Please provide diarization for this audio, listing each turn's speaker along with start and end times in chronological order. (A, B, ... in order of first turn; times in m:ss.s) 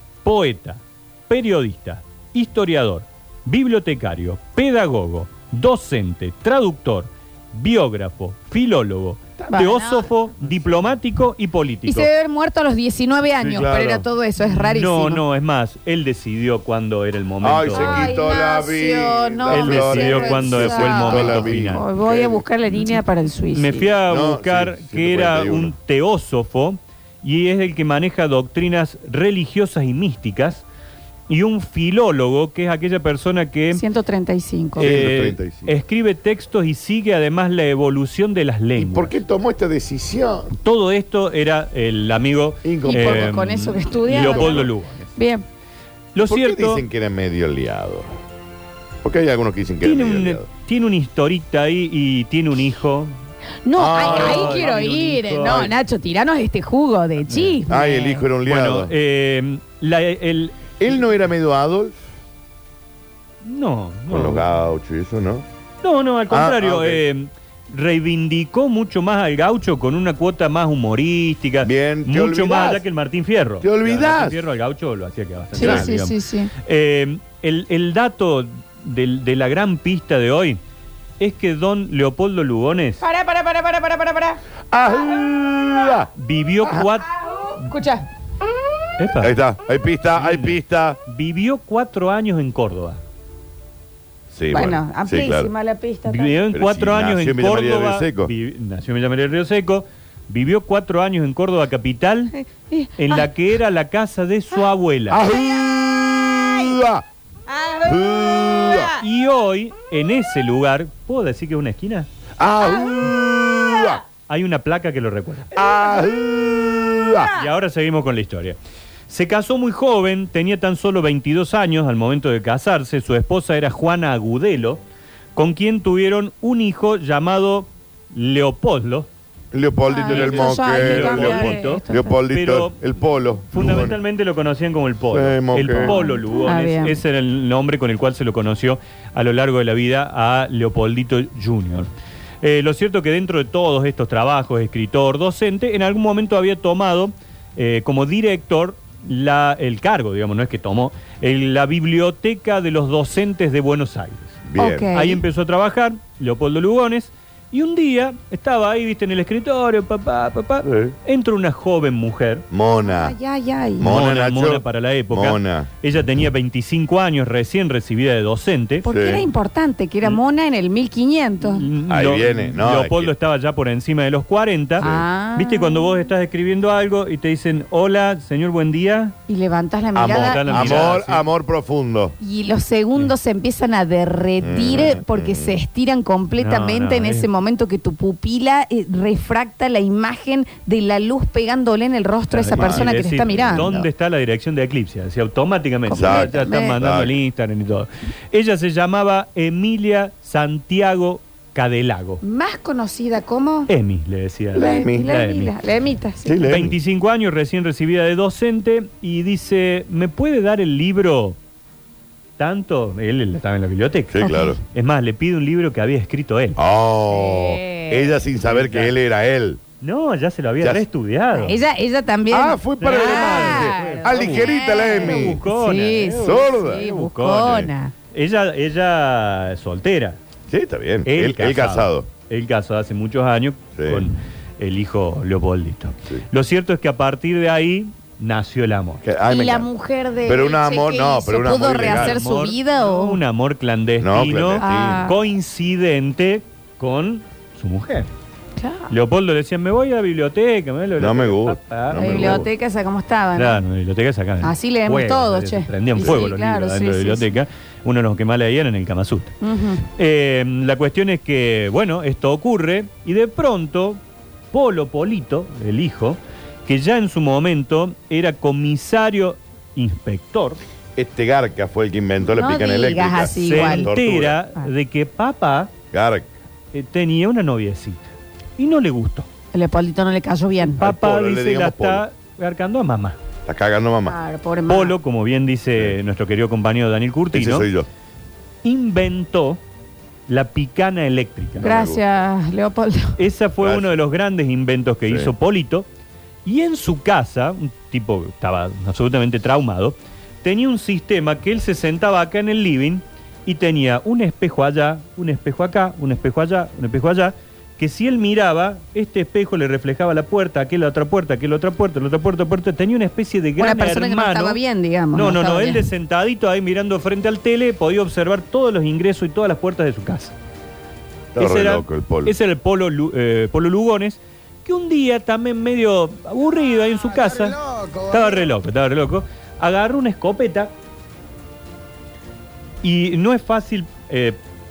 0:00.2-0:12.1 A
0:09.5-0:10.2 B
0:11.8-0:15.2 B
0:13.4-0:13.8 A
0:13.5-0:14.0 C
0:14.6-0:18.1 A
0:17.4-0:22.4 C
0:17.7-0:23.9 B
0:19.5-0:21.8 A
0:23.5-0:30.6 A
0:24.1-0:25.7 C
0:31.3-0:33.8 A
0:33.7-0:34.9 B
0:34.8-0:35.7 C
0:34.8-0:39.2 A
0:38.8-0:40.5 C
0:40.6-0:45.1 A
0:42.6-0:43.4 C
0:42.8-0:45.4 B
0:44.1-0:44.7 C
0:46.1-0:46.8 A
0:46.2-0:48.1 C
0:49.0-0:50.4 C
0:49.8-0:53.1 A
0:53.6-0:58.2 B
0:53.7-0:54.8 C
0:53.9-0:55.7 A
0:55.4-0:55.7 C
0:57.3-0:57.6 A
0:57.7-0:58.9 C
0:58.4-1:00.7 A
1:00.8-1:02.0 C
1:03.4-1:04.5 A
1:04.1-1:05.4 C
1:05.8-1:20.6 A
1:06.3-1:07.0 C
1:11.6-1:12.8 C
1:13.6-1:14.4 C
1:15.5-1:16.5 B
1:15.6-1:15.9 C
1:21.2-1:23.0 A
1:23.0-1:24.4 B
1:24.7-1:26.1 C
1:26.2-1:27.1 A
1:27.1-1:28.1 B
1:29.0-1:29.4 A
1:29.0-1:31.0 C
1:30.1-1:33.0 A
1:34.3-1:35.5 C
1:34.5-1:36.3 B
1:36.1-1:42.3 A
1:36.5-1:38.3 C
1:42.3-1:43.3 B
1:43.0-1:45.2 A
1:45.1-1:47.0 C
1:45.3-1:45.6 B
1:46.3-1:46.7 B
1:47.5-1:49.0 B
1:47.8-1:48.9 C
1:49.0-1:52.1 A
1:52.4-1:54.0 C
1:52.6-1:53.1 B
1:54.3-1:55.5 A
1:55.5-1:57.3 C
1:55.6-1:56.1 B
1:57.1-1:57.5 B
1:57.3-1:58.6 A
1:59.1-2:04.8 A
2:05.4-2:09.1 A
2:09.5-2:14.0 C
2:09.9-2:12.2 B
2:10.1-2:12.8 A
2:13.5-2:21.9 A
2:15.1-2:16.0 C
2:15.7-2:17.0 B
2:22.4-2:34.4 A
2:34.4-2:34.9 C
2:34.6-2:35.2 B
2:34.9-2:42.4 A
2:40.6-2:40.9 C
2:42.5-2:43.1 C
2:42.8-2:43.9 B
2:43.8-2:45.7 C
2:43.8-2:48.8 A
2:48.8-2:49.2 C
2:48.8-2:51.7 B
2:51.4-2:59.1 A
2:51.9-2:53.1 C
2:54.8-2:55.0 C
2:54.8-2:56.0 B
2:59.3-3:01.0 B
2:59.9-3:02.2 C
3:00.0-3:01.2 A
3:02.2-3:13.9 B
3:04.4-3:05.6 C
3:06.4-3:07.3 A
3:12.3-3:22.2 A
3:12.5-3:13.7 C
3:15.9-3:16.8 B
3:15.9-3:17.1 C
3:22.2-3:23.7 B
3:23.7-3:25.5 A
3:24.5-3:25.1 C
3:24.5-3:26.5 B
3:26.2-3:26.8 C
3:26.4-3:31.4 A
3:32.4-3:36.6 A
3:34.1-3:34.6 C
3:34.2-3:34.6 B
3:36.6-3:39.6 C
3:37.1-3:38.1 B
3:38.4-3:38.9 A
3:39.8-3:41.6 A
3:41.3-3:47.9 B
3:42.3-3:45.4 C
3:42.8-3:50.2 A
3:46.2-3:46.8 C
3:50.5-3:52.1 C
3:51.0-3:59.0 A
3:53.8-3:54.1 C
3:59.0-3:59.7 C
3:59.3-4:03.2 B
4:00.2-4:02.2 C
4:01.8-4:08.1 A
4:04.0-4:05.1 C
4:04.6-4:05.2 B
4:08.6-4:08.9 B
4:08.9-4:12.5 A
4:11.0-4:12.5 C
4:12.0-4:13.6 B
4:13.4-4:24.0 A
4:14.4-4:17.3 B
4:19.4-4:19.8 B
4:24.5-4:30.6 A
4:31.0-4:34.4 C
4:32.2-4:33.9 B
4:33.4-4:35.7 A
4:35.9-4:36.3 C
4:36.7-4:39.3 A
4:39.5-4:40.8 B
4:40.8-4:42.0 C
4:40.8-4:43.2 A
4:43.4-4:44.2 C
4:44.0-4:45.0 B
4:44.7-4:47.7 A
4:47.3-4:47.9 C
4:48.6-4:49.6 A
4:50.3-4:51.7 A
4:51.6-4:52.0 C
4:51.6-4:53.2 B
4:53.2-4:55.8 A
4:53.6-4:53.9 C
4:55.0-4:55.3 C
4:56.4-5:14.6 A
5:13.6-5:15.8 B
5:15.1-5:20.3 A
5:21.3-5:22.3 C
5:21.4-5:30.7 A
5:32.8-5:34.4 A